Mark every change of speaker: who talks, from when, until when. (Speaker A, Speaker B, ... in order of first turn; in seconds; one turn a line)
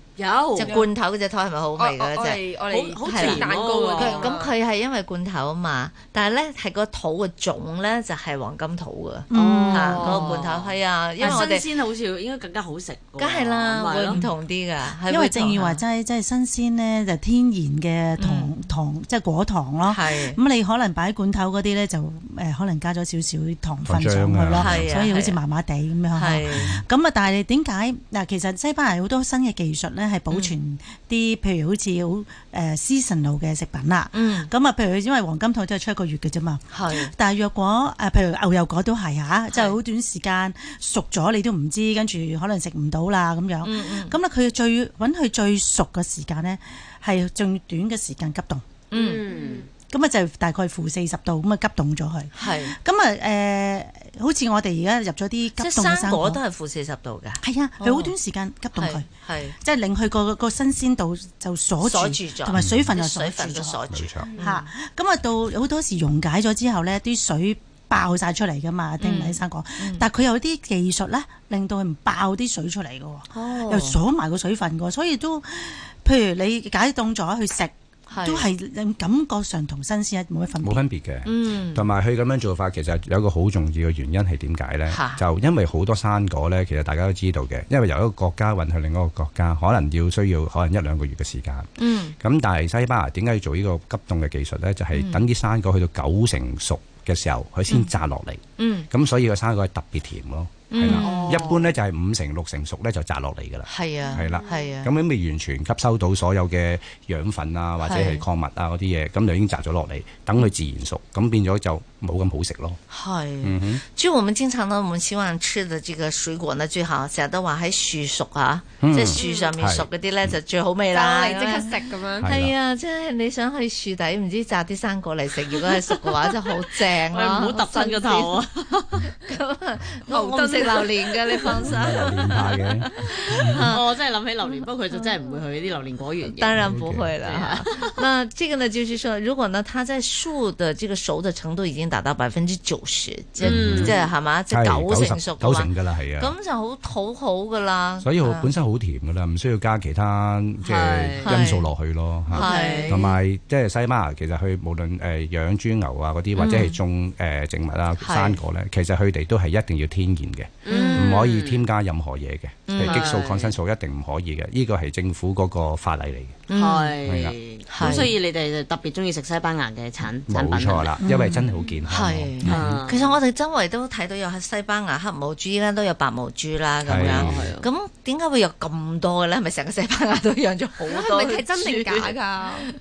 Speaker A: 0.2-0.8
Speaker B: 0.6-2.4
Speaker C: 0.6-0.9
Speaker C: 1.8-4.5
Speaker A: 2.6-4.4
Speaker B: 3.0-11.7
Speaker D: 9.3-10.4
Speaker A: 9.3-14.2
Speaker B: 13.2-15.8
Speaker D: 15.1-48.6
Speaker B: 18.2-18.5
Speaker B: 19.8-20.4
Speaker E: 23.9-24.9
Speaker B: 24.6-25.4
Speaker B: 26.1-26.7
Speaker E: 26.5-26.8
Speaker B: 30.3-30.6
Speaker B: 34.1-34.5
Speaker B: 36.7-37.1
Speaker B: 39.5-39.8
Speaker B: 43.6-44.2
Speaker B: 48.9-49.2
Speaker A: 48.9-49.7
Speaker D: 49.9-56.4
Speaker B: 52.3-52.7
Speaker B: 55.6-58.1
Speaker D: 57.4-59.1
Speaker B: 58.8-59.5
Speaker D: 59.6-63.9
Speaker B: 61.8-64.7
Speaker E: 62.5-62.8
Speaker E: 63.9-64.3
Speaker D: 64.4-80.8
Speaker B: 69.0-70.1
Speaker B: 73.3-74.0
Speaker B: 78.1-78.5
Speaker E: 80.6-112.8
Speaker B: 81.2-81.8
Speaker B: 84.9-85.2
Speaker B: 91.8-92.1
Speaker B: 94.9-95.2
Speaker B: 98.6-98.9
Speaker B: 100.7-101.5
Speaker A: 101.0-101.7
Speaker B: 103.7-104.9
Speaker B: 107.8-108.2
Speaker B: 112.9-128.4
Speaker E: 113.4-113.8
Speaker E: 118.8-119.9
Speaker C: 119.2-119.5
Speaker C: 120.9-122.3
Speaker E: 122.2-122.5
Speaker A: 126.9-129.1
Speaker B: 129.1-133.8
Speaker C: 130.1-131.8
Speaker E: 131.6-133.7
Speaker A: 133.7-137.9
Speaker B: 136.3-148.5
Speaker E: 136.5-137.1
Speaker A: 143.4-144.1
Speaker E: 143.4-143.9
Speaker E: 144.5-146.3
Speaker E: 148.0-166.4
Speaker A: 150.7-151.3
Speaker B: 151.2-151.7
Speaker A: 152.3-153.1
Speaker B: 152.3-153.1
Speaker B: 156.3-156.8
Speaker B: 158.0-158.4
Speaker A: 160.6-161.6
Speaker B: 160.7-161.1
Speaker B: 162.7-163.1
Speaker A: 162.8-163.6
Speaker B: 166.5-167.0
Speaker A: 166.5-171.0
Speaker E: 167.0-167.3
Speaker B: 167.7-168.1
Speaker E: 170.3-172.8
Speaker D: 171.0-171.5
Speaker B: 171.0-182.6
Speaker A: 172.4-173.2
Speaker E: 176.8-177.5
Speaker A: 176.9-177.7
Speaker C: 180.8-182.7